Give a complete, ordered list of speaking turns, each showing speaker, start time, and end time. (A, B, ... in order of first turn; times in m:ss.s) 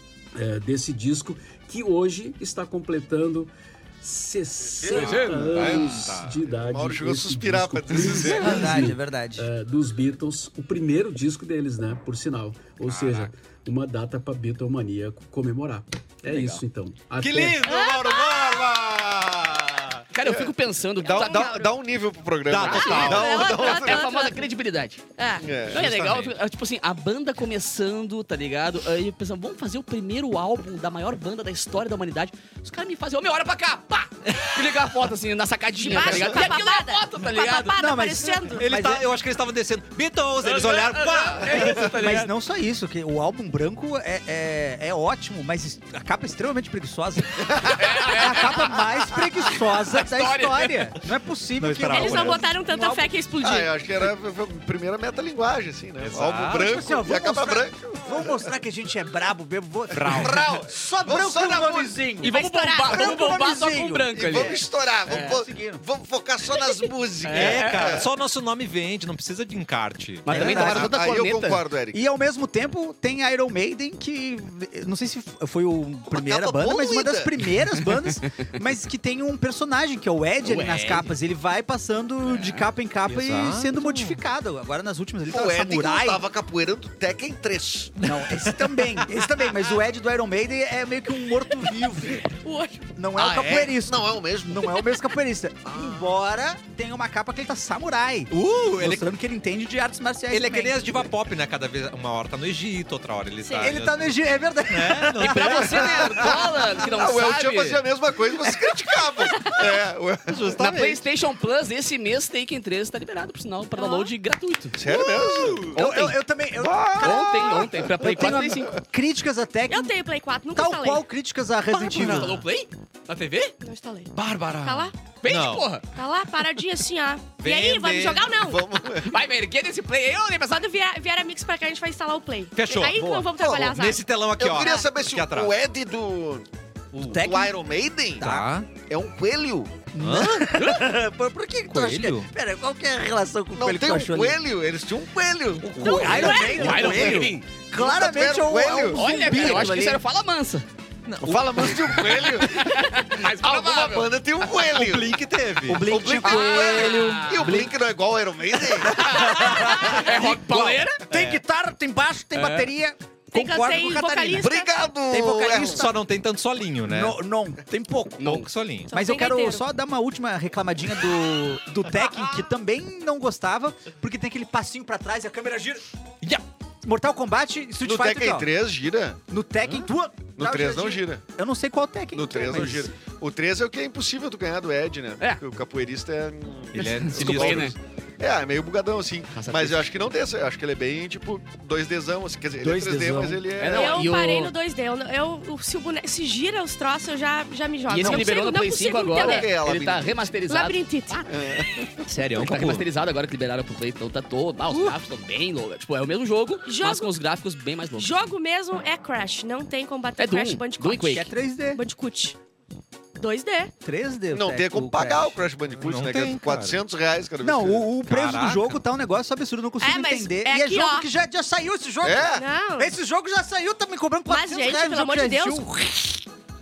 0:00.3-0:17.7 A
0:04.8-0:06.0 B
0:04.8-0:06.4 C
0:04.9-0:05.5 D
0:06.6-0:08.8 B
0:08.4-0:09.5 E
0:12.8-0:13.3 C
0:16.2-0:16.6 D
0:17.2-0:20.0 C
0:17.6-0:18.7 F
0:20.1-0:21.4 D
0:20.2-0:24.0 B
0:21.0-0:21.7 F
0:22.5-0:23.5 C
0:22.6-0:25.0 D
0:23.0-0:24.4 F
0:25.2-0:25.5 F
0:25.4-0:26.0 B
0:25.7-0:26.3 C
0:25.7-0:37.8 D
0:34.3-0:34.6 C
0:35.8-0:38.6 F
0:36.0-0:36.4 B
0:37.8-0:39.0 E
0:38.6-0:41.8 C
0:40.4-0:42.3 D
0:41.5-0:53.1 E
0:47.5-0:47.8 B
0:47.8-0:50.8 D
0:51.6-0:52.4 C
0:51.9-0:53.7 F
0:53.4-0:58.3 B
0:56.0-0:56.7 C
0:56.5-1:02.3 E
0:59.9-1:00.5 C
1:00.0-1:02.0 B
1:02.2-1:05.4 D
1:02.2-1:03.2 F
1:02.8-1:05.8 E
1:04.1-1:08.1 B
1:07.2-1:07.9 D
1:07.3-1:10.9 C
1:10.2-1:11.6 D
1:10.3-1:10.9 E
1:10.3-1:12.0 B
1:11.9-1:26.2 E
1:16.1-1:17.3 B
1:20.4-1:21.2 D
1:22.2-1:22.6 D
1:23.1-1:24.2 C
1:25.3-1:28.0 B
1:28.0-1:32.3 E
1:28.1-1:29.0 C
1:32.3-1:32.9 F
1:33.0-1:40.9 E
1:33.2-1:34.8 B
1:35.7-1:36.1 B
1:38.3-1:39.0 C
1:40.3-1:46.0 C
1:43.4-1:43.7 F
1:43.6-1:46.4 E
1:45.2-1:47.8 D
1:46.2-1:51.0 B
1:50.3-1:50.8 C
1:50.6-1:54.8 D
1:53.8-1:54.1 F
1:54.8-1:55.9 B
1:54.9-1:59.9 E
1:55.7-1:56.2 D
1:56.6-1:58.6 B
1:57.0-1:58.7 D
1:59.7-2:01.0 F
2:00.5-2:02.4 E
2:01.7-2:03.5 D
2:01.8-2:02.4 C
2:03.6-2:04.9 F
2:04.1-2:05.7 C
2:05.2-2:05.8 D
2:05.9-2:08.7 F
2:07.4-2:08.3 C
2:08.3-2:09.1 B
2:09.0-2:10.7 D
2:10.5-2:14.0 F
2:12.6-2:15.6 C
2:13.4-2:13.7 B
2:14.4-2:16.5 B
2:14.5-2:14.9 F
2:17.0-2:17.6 E
2:17.0-2:19.9 B
2:18.2-2:18.5 E
2:18.2-2:18.7 C
2:19.9-2:24.4 E
2:20.0-2:20.5 C
2:20.5-2:20.9 D
2:21.7-2:22.3 C
2:23.5-2:29.7 B
2:25.6-2:26.6 C
2:25.8-2:30.0 E
2:25.8-2:26.8 F
2:26.2-2:27.4 D
2:28.9-2:30.6 D
2:31.0-2:32.1 C
2:31.2-2:35.2 B
2:31.8-2:34.1 D
2:34.6-2:35.9 C
2:35.6-2:37.7 E
2:35.8-2:39.3 B
2:36.2-2:37.7 D
2:38.9-2:41.0 D
2:38.9-2:44.6 E
2:41.1-2:41.4 C
2:42.3-2:42.7 D
2:43.3-2:44.7 F
2:44.4-2:45.8 B
2:45.1-2:46.0 E
2:45.6-2:47.2 C
2:46.9-2:48.4 E
2:48.2-2:48.5 D
2:48.2-2:48.9 C
2:48.9-2:49.6 F
2:48.9-2:55.8 E
2:56.8-2:58.5 E
2:57.8-2:59.2 B
2:59.3-3:02.9 E
3:00.4-3:01.2 B
3:02.1-3:14.0 B
3:06.7-3:07.7 C
3:06.7-3:07.7 D
3:09.3-3:09.9 D
3:12.6-3:13.4 E
3:13.6-3:14.5 D
3:13.7-3:19.5 F
3:17.9-3:21.2 D
3:19.1-3:20.3 B
3:20.5-3:21.9 F
3:21.3-3:21.8 B
3:22.0-3:22.8 C
3:22.3-3:28.3 D
3:26.6-3:27.1 F
3:28.0-3:32.4 F
3:30.2-3:31.3 D
3:31.1-3:31.8 E
3:33.2-3:33.7 F
3:33.8-3:35.4 E
3:34.3-3:37.9 B
3:35.8-3:36.8 C
3:37.4-3:45.7 E
3:38.0-3:38.8 C
3:39.8-3:41.1 F
3:42.0-3:42.4 B
3:42.4-3:42.9 F
3:44.3-3:46.2 F